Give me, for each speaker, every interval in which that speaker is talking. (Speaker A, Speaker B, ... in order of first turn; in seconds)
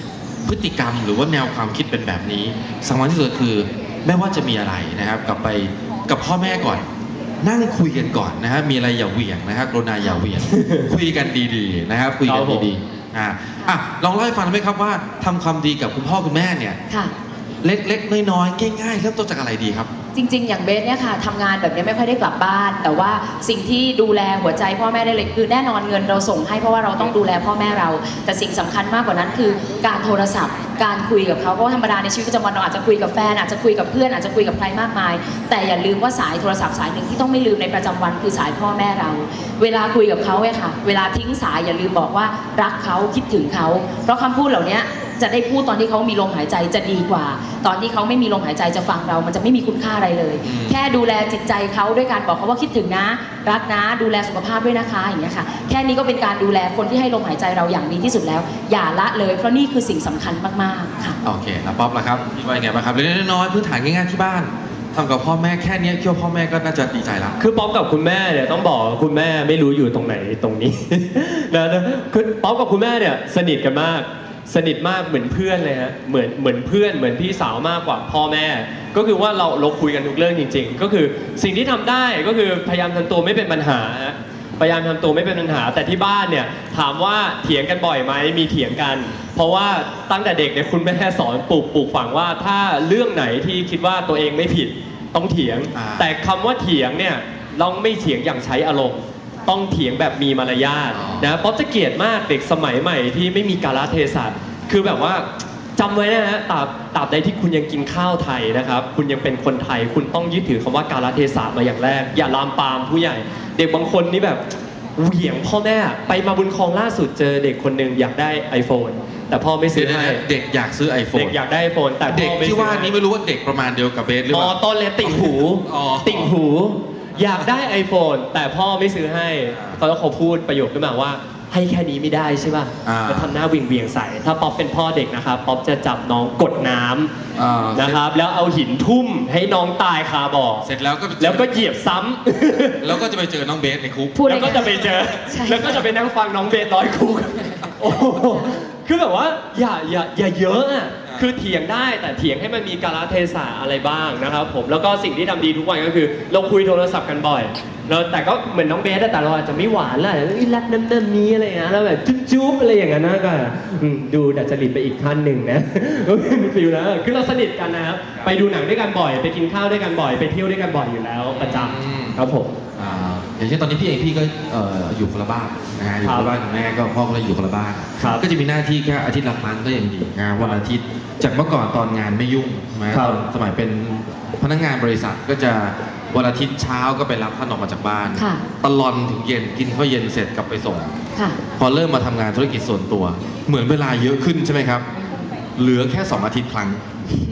Speaker A: 0.5-6.8, 7.4-16.8, 17.6-19.9, 50.4-50.8, 61.2-67.4, 95.7-96.1, 101.0-101.3, 119.7-121.4, 122.0-126.3, 132.8-133.3, 137.4-138.0, 140.6-141.7, 142.8-144.9, 171.4-172.2, 172.8-191.0, 191.6-194.9, 195.6-196.9
Speaker B: 10.0-10.3, 20.1-61.2, 144.2-145.8, 188.2-188.4, 195.0-195.3
Speaker C: 10.5-10.9, 12.3-12.7, 67.4-114.4, 115.0-120.2, 121.1-123.0, 124.3-137.1, 137.7-140.7, 141.2-143.0, 144.3-172.5, 176.0-176.4, 178.0-178.2, 182.9-183.2